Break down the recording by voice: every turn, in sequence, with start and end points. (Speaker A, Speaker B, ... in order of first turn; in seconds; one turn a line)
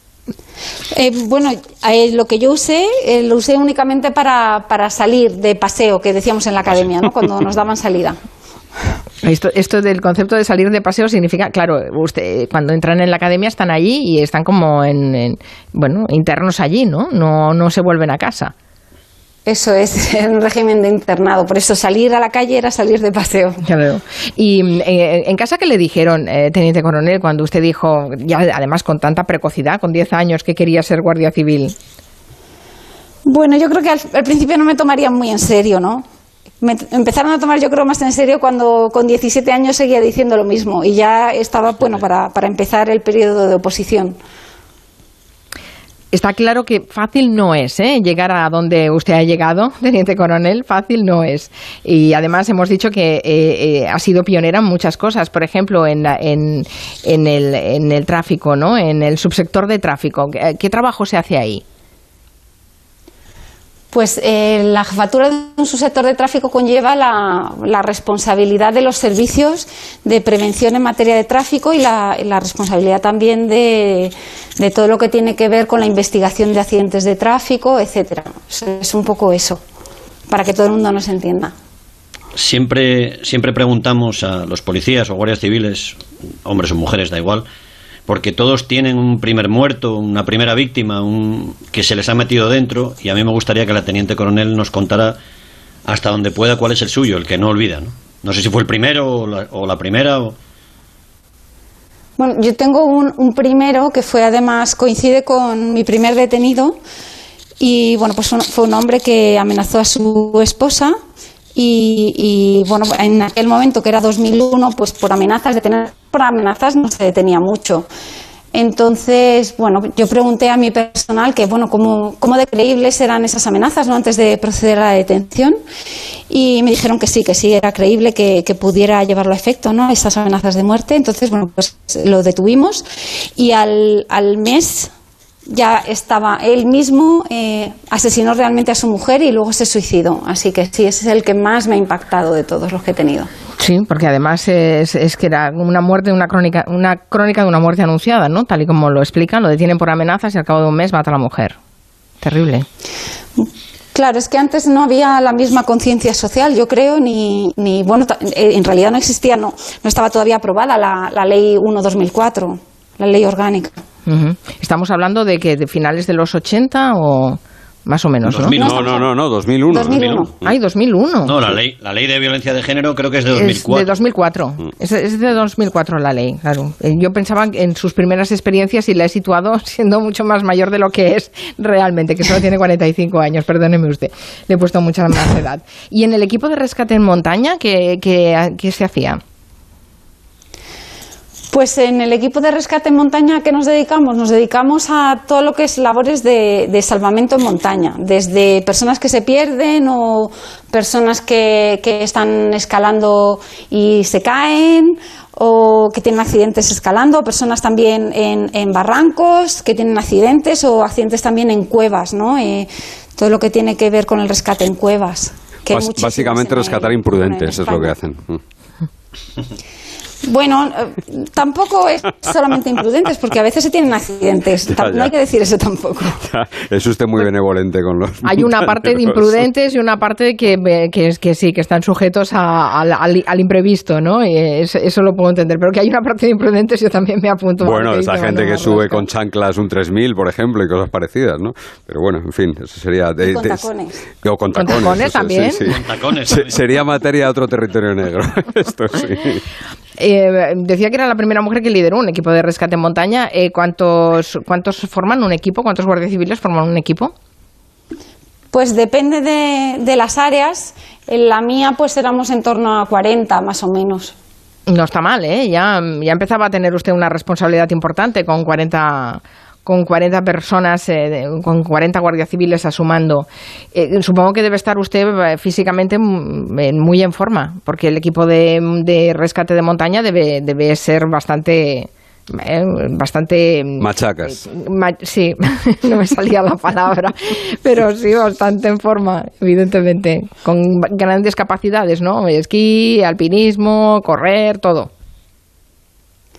Speaker A: 0.9-8.2
Speaker B: 9.2-18.5
Speaker A: 19.4-23.6
Speaker B: 23.6-31.7
Speaker A: 33.2-36.0
Speaker A: 36.6-44.2
Speaker B: 46.1-61.6
Speaker A: 63.9-79.6
Speaker A: 80.3-81.5
Speaker C: 82.3-87.5
Speaker C: 88.1-95.2
Speaker C: 95.8-100.3
Speaker A: 102.2-106.8
Speaker A: 107.6-110.9
Speaker A: 111.5-117.9
Speaker A: 118.5-125.5
Speaker A: 126.3-132.8
Speaker A: 133.4-134.9
Speaker A: 135.5-143.3
Speaker B: 143.6-151.6
Speaker B: 152.2-152.7
Speaker A: 153.4-163.8
Speaker B: 164.1-168.5
Speaker C: 168.2-168.8
Speaker D: 168.5-170.2
Speaker A: 168.6-169.1
Speaker A: 169.7-170.3
Speaker C: 169.9-170.3
Speaker B: 170.4-171.3
Speaker C: 171.2-174.0
Speaker B: 173.3-189.2
Speaker A: 191.5-217.9
Speaker D: 215.7-218.4
Speaker A: 220.2-226.2
Speaker D: 224.8-225.1
Speaker D: 226.2-229.3
Speaker B: 228.2-239.0
Speaker D: 237.6-243.7
Speaker A: 243.2-244.0
Speaker D: 244.2-249.4
Speaker B: 244.5-245.7
Speaker C: 245.7-246.6
Speaker B: 250.0-257.1
Speaker A: 258.5-264.1
Speaker B: 264.7-294.9
Speaker D: 283.8-284.4